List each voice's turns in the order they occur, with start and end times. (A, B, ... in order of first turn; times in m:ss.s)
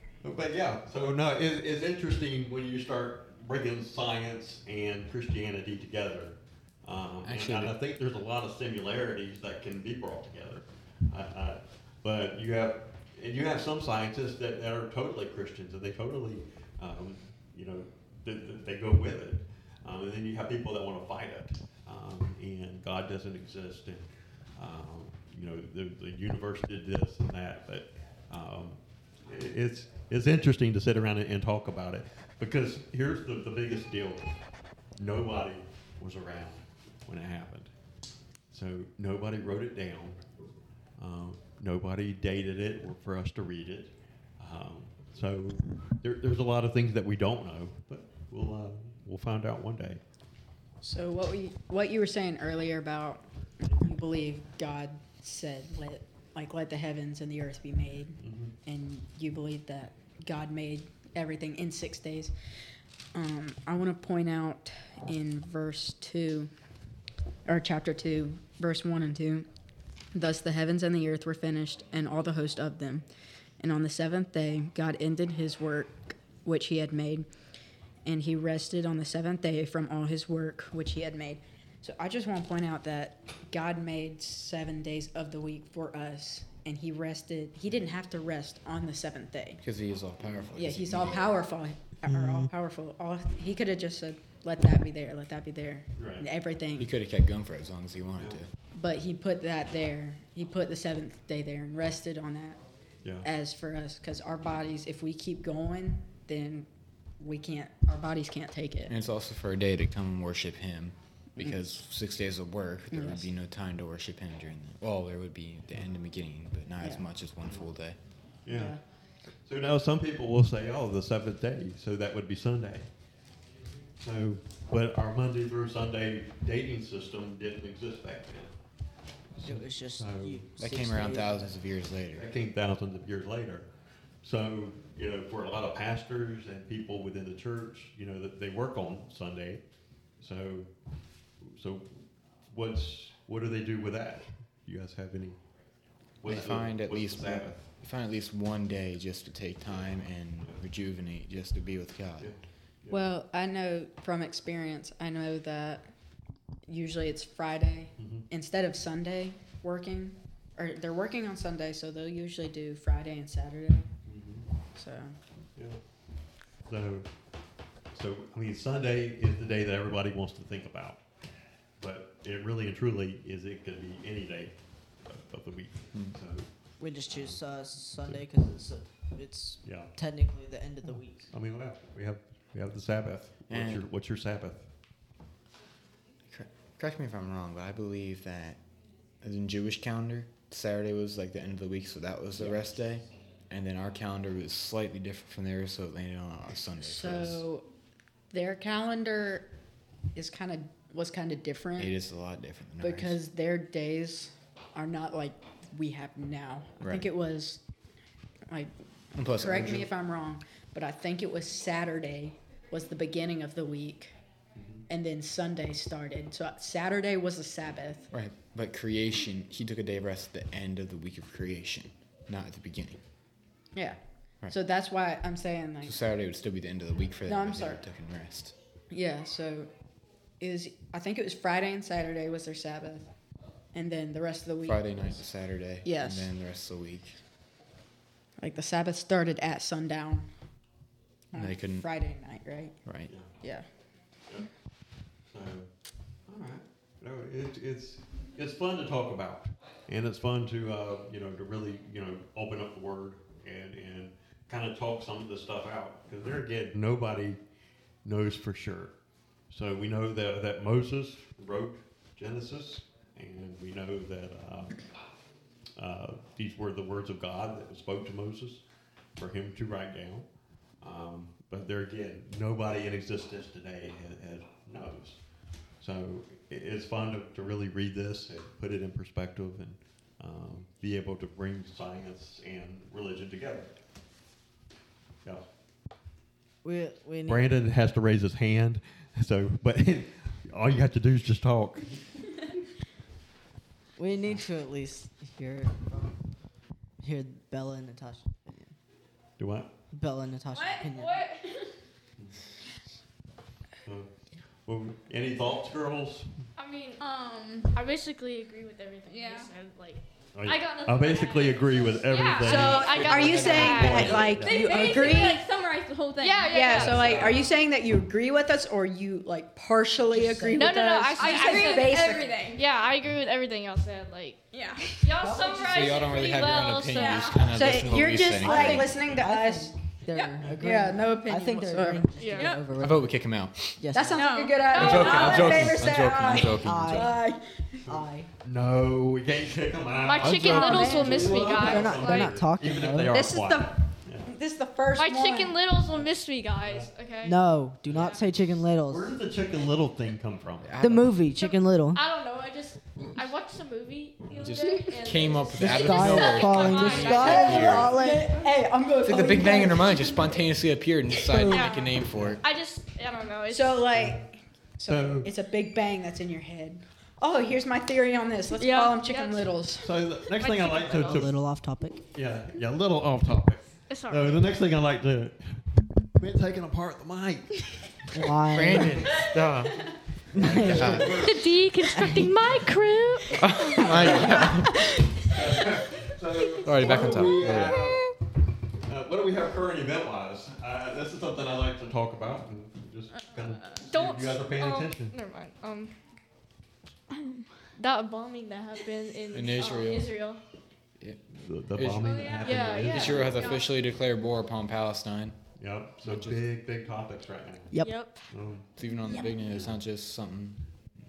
0:00.2-0:24.0 A
0:07.2-0:07.7 B
0:24.6-0:34.2 A
0:35.0-0:37.7 A
0:38.5-0:40.2 A
0:41.0-0:50.0 A
0:50.8-1:02.3 C
0:58.2-0:58.5 A
1:03.1-1:06.5 C
1:07.4-1:09.5 C
1:10.1-1:13.0 C
1:13.6-1:17.3 C
1:18.0-1:29.6 C
1:29.6-1:31.4 B
1:30.5-1:36.9 C
1:32.1-1:32.5 D
1:36.0-1:36.2 A
1:36.8-1:38.5 B
1:38.7-1:42.6 C
1:43.2-1:46.7 C
1:47.2-1:48.9 C
1:48.9-1:58.0 B
1:52.9-1:53.3 C
1:58.4-1:58.8 A
1:58.5-1:58.8 C
1:59.5-2:02.9 A
2:04.0-2:08.5 A
2:09.4-2:10.4 A
2:09.4-2:11.4 D
2:10.6-2:12.3 B
2:12.1-2:13.6 A
2:14.2-2:19.6 A
2:20.2-2:20.7 A
2:21.4-2:25.4 A
2:26.2-2:27.6 A
2:26.2-2:32.3 B
2:32.2-2:33.0 A
2:32.9-2:35.9 C
2:36.7-2:43.9 C
2:38.0-2:38.2 A
2:44.1-2:44.4 A
2:44.7-2:45.2 C
2:46.7-2:47.1 A
2:47.9-2:51.0 A
2:51.8-2:54.5 A
2:55.0-2:56.4 A
2:56.8-3:01.3 D
2:57.1-2:57.4 A
2:59.6-2:59.9 A
3:01.3-3:04.6 A
3:03.5-3:03.9 B
3:06.3-3:08.6 B
3:09.2-3:17.4 B
3:16.8-3:17.6 C
3:18.3-3:19.5 C
3:20.1-3:21.9 C
3:21.8-3:23.2 B
3:22.8-3:27.6 C
3:26.8-3:27.1 B
3:29.1-3:29.9 B
3:29.3-3:34.1 C
3:34.6-3:34.8 A
3:34.9-3:38.1 C
3:38.1-3:43.0 B
3:44.5-3:46.0 C
3:45.8-3:48.5 B
3:47.3-3:47.8 C
3:48.9-3:49.7 C
3:50.4-3:53.1 C
3:53.7-3:54.9 C
3:54.6-3:57.2 B
3:55.8-3:56.3 C
3:58.4-4:00.3 C
4:01.3-4:02.7 C
4:01.3-4:01.9 B
4:02.8-4:03.1 B
4:05.3-4:05.7 A
4:06.3-4:17.4 A
4:18.0-4:18.9 A
4:19.5-4:24.8 A
4:25.8-4:28.6 A
4:29.2-4:30.2 A
4:30.8-4:35.2 A
4:35.8-4:43.7 A
4:46.6-4:47.5 D
4:47.3-4:51.9 A
4:54.0-4:56.1 D
4:57.0-4:58.7 D
4:59.4-4:59.7 A
4:59.9-5:01.2 D
5:00.6-5:00.9 E
5:01.0-5:01.4 F
5:04.6-5:06.5 A
5:06.6-5:07.0 F
5:07.0-5:07.7 E
5:07.7-5:14.3 F
5:09.1-5:09.5 E
5:10.3-5:15.1 A
5:12.4-5:15.4 C
5:14.3-5:16.9 E
5:16.2-5:17.4 F
5:16.5-5:22.5 C
5:16.7-5:17.4 A
5:20.1-5:20.8 D
5:20.5-5:24.4 F
5:21.2-5:22.6 E
5:24.5-5:25.1 E
5:25.0-5:27.5 F
5:25.2-5:26.0 D
5:25.6-5:29.0 B
5:26.8-5:27.5 E
5:27.4-5:29.7 C
5:28.4-5:33.2 D
5:30.1-5:30.4 E
5:30.5-5:32.1 C
5:32.2-5:32.6 F
5:32.8-5:33.8 B
5:33.8-5:34.3 D
5:33.9-5:37.8 C
5:34.1-5:35.6 E
5:34.6-5:35.7 F
5:34.7-5:37.1 B
5:36.5-5:37.2 D
5:37.8-5:38.3 D
5:37.9-5:44.3 A
5:40.0-5:42.5 F
5:40.3-5:41.6 C
5:40.9-5:43.2 D
5:43.0-5:45.6 C
5:45.0-5:47.4 F
5:46.6-5:46.9 A
5:47.2-5:49.1 D
5:47.9-5:48.2 F
5:48.9-5:50.8 A
5:50.6-5:51.2 B
5:50.8-5:52.0 D
5:51.4-5:57.9 F
5:54.4-5:58.0 B
5:55.6-5:58.3 D
5:57.0-6:00.4 C
5:59.0-6:02.4 B
6:01.3-6:01.6 D
6:01.4-6:03.9 F
6:02.1-6:02.4 A
6:03.5-6:09.9 C
6:03.9-6:04.2 A
6:04.9-6:05.3 A
6:08.5-6:09.5 F
6:09.8-6:11.3 A
6:10.4-6:11.3 F
6:10.9-6:12.0 D
6:12.1-6:15.6 A
6:13.9-6:14.5 F
6:16.2-6:17.8 A
6:18.1-6:19.0 D
6:18.5-6:19.8 B
6:18.6-6:19.4 A
6:20.3-6:21.2 D
6:20.3-6:21.6 A
6:20.6-6:21.2 B
6:21.0-6:25.1 F
6:21.9-6:22.5 D
6:23.3-6:25.0 B
6:23.8-6:24.5 A
6:25.2-6:28.1 A
6:26.6-6:27.8 B
6:28.8-6:35.1 A
6:33.3-6:35.9 F
6:37.8-6:40.4 F
6:39.3-6:40.1 B
6:41.0-6:45.4 B
6:41.3-6:43.5 A
6:42.0-6:42.6 E
6:42.2-6:43.7 F
6:45.6-6:47.7 A
6:46.0-6:46.4 B
6:47.8-6:48.3 F
6:48.3-6:48.6 A
6:48.8-6:50.6 B